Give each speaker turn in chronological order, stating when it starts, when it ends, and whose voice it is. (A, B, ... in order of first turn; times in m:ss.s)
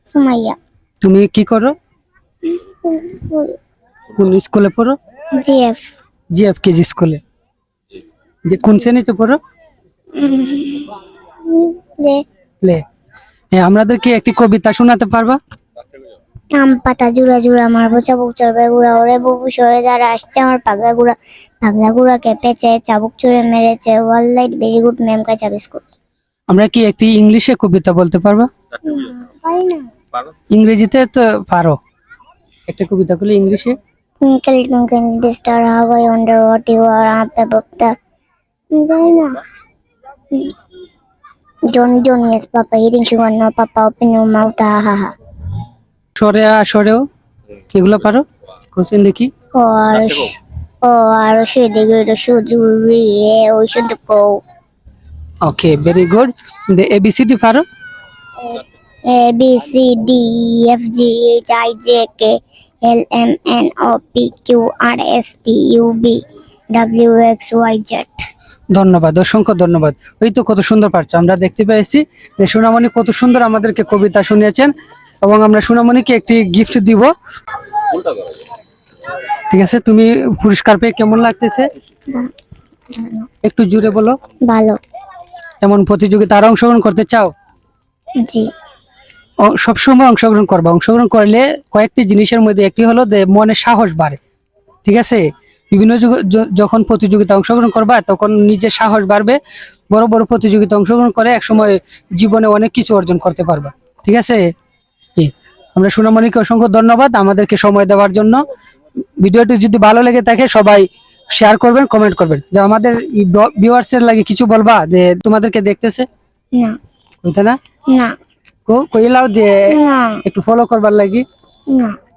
0:00.1-0:00.6 A
0:01.0-0:01.7 B
0:02.4-0:03.6 A
0:04.1-0:05.0 B
0:05.4-0:05.8 A
0:06.3-0:07.2 B
0:08.5-0:09.4 B
0:10.2-0:12.2 A
0:13.6-0:15.4 B
0:16.6-0:25.9 A
0:26.5-0:28.5 B
0:28.8-0:29.9 A
0:30.5-0:31.8 B
0:32.7-0:33.8 B
0:34.2-0:37.9 A
0:38.7-0:39.4 A
0:41.7-0:45.1 A
0:46.2-0:47.0 B
0:47.7-0:49.3 B
0:49.5-0:54.4 A
0:55.4-0:57.6 B
0:58.4-1:06.2 A
1:06.7-1:08.2 A
1:08.7-1:17.1 B
1:19.5-1:21.7 B
1:22.9-1:23.3 A
1:23.4-1:24.2 B
1:24.5-1:24.8 A
1:25.6-1:27.3 B
1:28.2-1:28.5 A
1:29.4-1:34.2 B
1:34.8-1:39.4 B
1:39.9-1:44.5 B
1:45.2-1:48.4 B
1:49.2-1:56.1 B
1:57.2-1:57.6 B
1:58.7-1:59.7 B
1:59.7-2:00.2 A
2:00.2-2:01.2 B
2:01.7-2:02.0 A